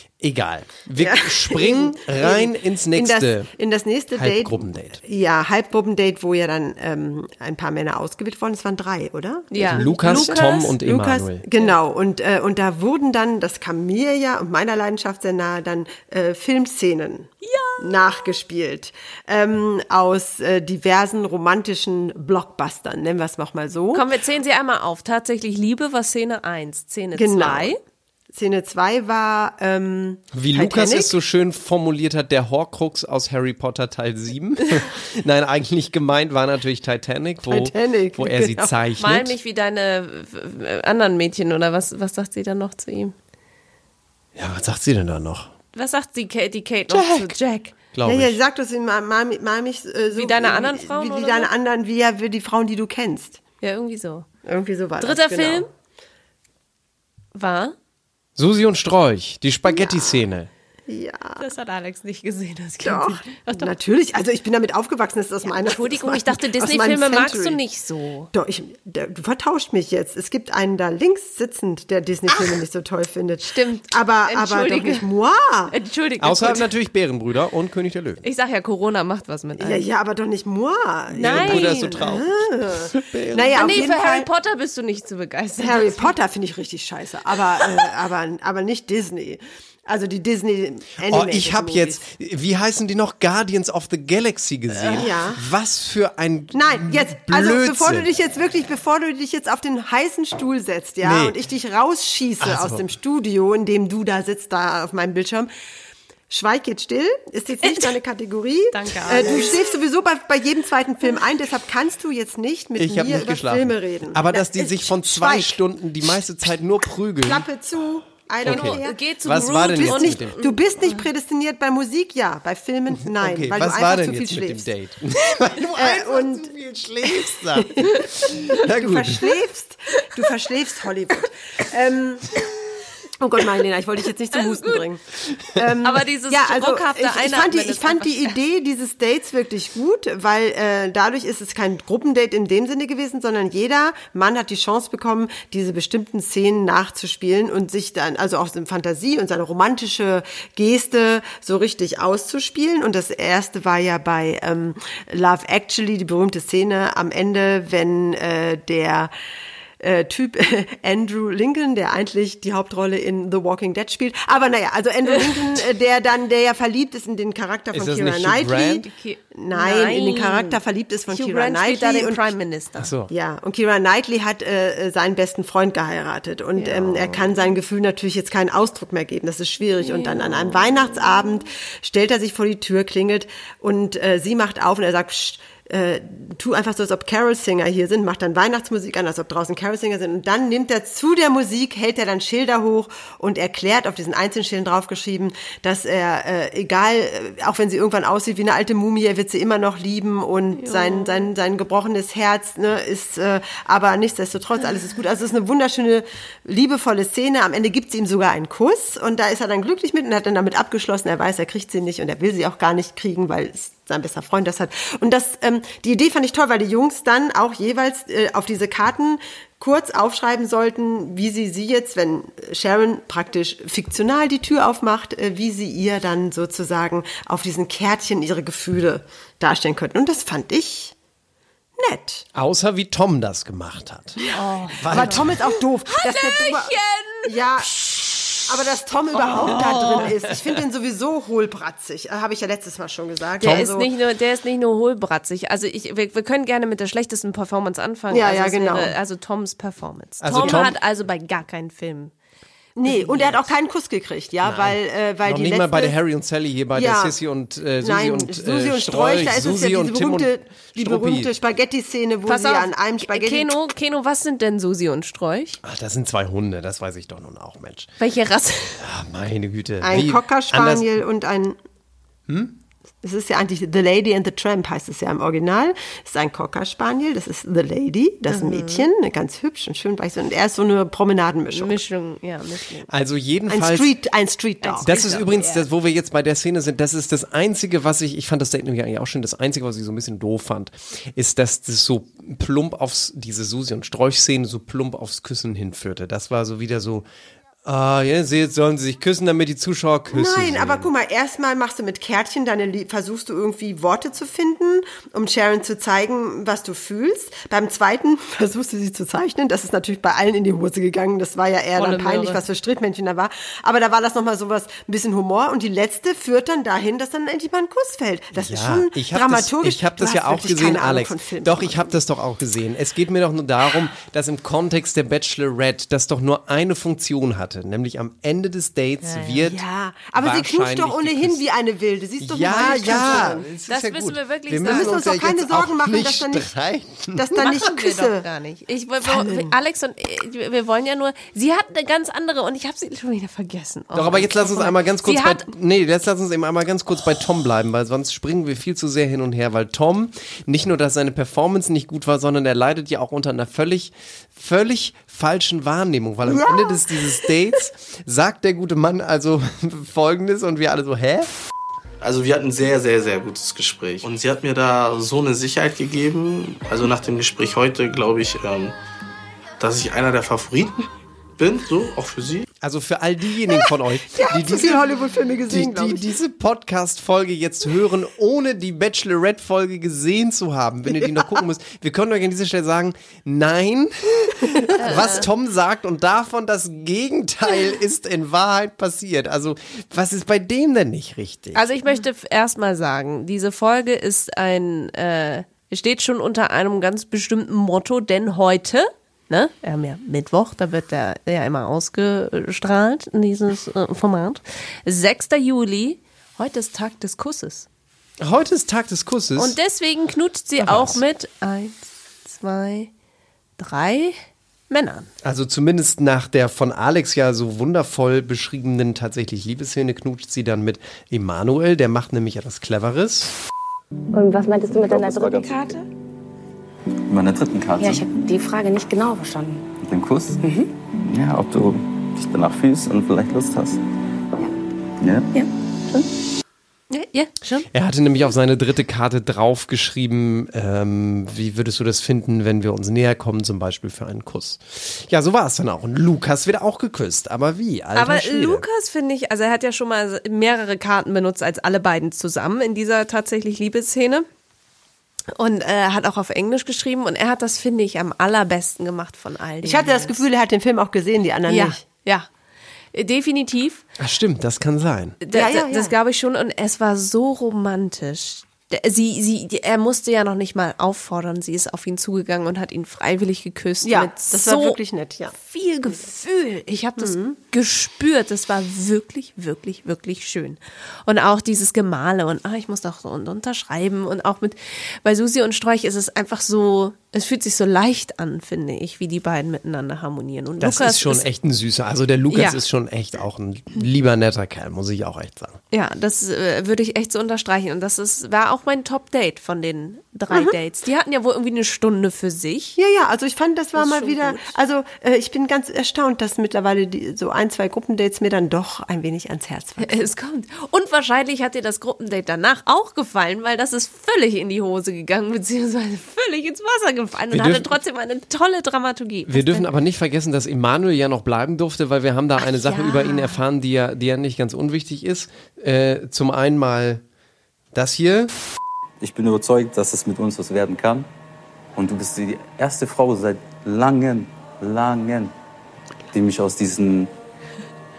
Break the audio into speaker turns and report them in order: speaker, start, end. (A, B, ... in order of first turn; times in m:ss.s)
0:00.2-0:03.5 A
0:01.0-0:24.1 B
0:04.2-0:05.0 A
0:09.5-0:10.7 C
0:09.7-0:11.4 A
0:17.4-0:18.0 C
0:23.9-0:27.8 C
0:27.2-0:27.7 B
0:28.3-0:31.1 B
0:30.3-0:39.4 A
0:37.5-0:38.7 B
0:39.0-0:43.2 C
0:44.4-0:45.5 A
0:45.7-0:47.7 C
0:46.9-0:47.3 A
0:47.9-0:48.4 A
0:48.0-0:53.4 B
0:50.1-0:51.5 C
0:53.6-0:54.3 C
0:54.5-0:55.7 B
0:55.0-0:55.7 C
0:57.4-0:57.8 C
0:58.4-1:00.5 A
0:59.7-1:00.2 B
1:00.9-1:01.4 B
1:01.4-1:03.7 C
1:02.8-1:07.6 B
1:05.4-1:08.3 C
1:08.3-1:15.7 B
1:13.5-1:15.0 C
1:15.7-1:16.7 C
1:16.2-1:18.2 A
1:18.2-1:19.8 C
1:19.6-1:24.3 B
1:21.1-1:22.2 C
1:21.2-1:23.9 A
1:23.6-1:26.1 C
1:25.6-1:32.0 B
1:31.1-1:38.1 A
1:34.8-1:35.4 B
1:36.5-1:45.5 B
1:41.0-1:41.4 A
1:42.4-1:42.8 A
1:46.3-1:55.6 B
1:47.6-1:47.9 C
1:48.7-1:49.5 C
1:52.8-1:57.5 A
1:57.2-2:04.6 B
1:58.4-2:00.5 C
1:58.4-2:00.4 A
2:03.0-2:09.3 A
2:05.8-2:06.5 B
2:07.1-2:12.5 B
2:13.2-2:39.1 B
2:14.3-2:14.9 C
2:15.8-2:18.3 C
2:39.8-2:52.3 B
2:47.7-2:48.9 A
2:48.8-2:52.9 C
2:52.8-2:53.1 A
2:53.1-3:51.0 B
2:56.6-2:56.9 C
2:59.8-3:00.3 C
3:20.6-3:21.3 C
3:51.8-3:52.3 B
3:52.3-3:54.2 A
3:54.2-3:55.3 C
3:54.8-3:55.4 A
3:54.9-4:03.9 B
3:55.9-3:57.3 C
3:59.2-4:00.1 C
3:59.4-4:00.0 A
4:03.4-4:12.1 C
4:03.4-4:03.7 A
4:08.1-4:08.9 B
4:10.2-4:10.8 A
4:10.3-4:10.7 B
4:12.8-4:16.0 B
4:12.8-4:13.5 C
4:14.4-4:21.3 A
4:16.7-4:17.2 B
4:17.8-4:23.5 B
4:22.3-4:25.6 C
4:25.6-4:27.9 A
4:28.0-4:28.8 C
4:28.8-4:30.9 A
4:29.8-4:31.6 B
4:32.3-4:32.6 A
4:33.0-4:41.8 B
4:38.3-4:38.8 C
4:41.5-4:42.9 C
4:42.9-4:43.9 A
4:43.5-4:44.9 B
4:44.6-4:45.6 C
4:44.8-4:57.1 A
4:57.6-5:00.9 A
5:00.1-5:21.8 B
5:11.8-5:12.4 C
5:18.4-5:29.6 A
5:29.4-5:33.5 B
5:30.2-5:31.4 A
5:32.2-5:37.6 A
5:32.6-5:35.0 C
5:34.6-5:36.5 B
5:37.2-5:38.2 B
5:37.4-5:45.5 C
5:39.0-5:39.5 B
5:43.9-6:01.3 A
5:56.3-5:57.2 B
6:02.0-6:08.8 D
6:09.6-6:12.4 D
6:12.6-6:14.9 A
6:14.1-6:16.0 B
6:15.5-6:31.6 A
6:24.6-6:25.1 B
6:24.8-6:25.3 C
6:31.6-6:47.7 C
6:48.2-6:49.6 A
6:49.4-6:52.9 C
6:50.6-6:51.0 A
6:53.6-6:55.1 C
6:55.2-7:03.4 A
7:04.1-7:05.9 E
7:04.9-7:05.7 F
7:07.1-7:08.0 F
7:07.8-7:09.6 E
7:09.8-7:10.4 F
7:10.4-7:10.7 E
7:11.0-7:13.8 F
7:15.0-7:15.3 F
7:15.3-7:16.1 E
7:16.9-7:17.7 C
7:17.7-7:28.6 A
7:28.0-7:34.3 C
7:35.4-7:40.2 C
7:39.6-7:41.8 B
7:41.5-7:42.3 C
7:42.9-7:43.8 C
7:44.0-7:45.2 A
7:45.2-7:54.8 C
7:45.3-7:45.9 B
7:53.8-7:55.3 B
7:55.4-8:11.2 C
7:57.0-7:57.4 B
8:10.6-8:15.6 A
8:12.3-8:12.6 C
8:15.7-8:22.8 C
8:22.8-8:30.0 B
8:23.8-8:24.5 C
8:29.8-8:39.7 C
8:37.3-8:37.8 A
8:39.3-8:47.0 A
8:42.4-8:43.4 C
8:47.7-8:48.3 A
8:49.0-8:51.1 F
8:51.8-8:55.3 F
8:56.1-8:57.1 F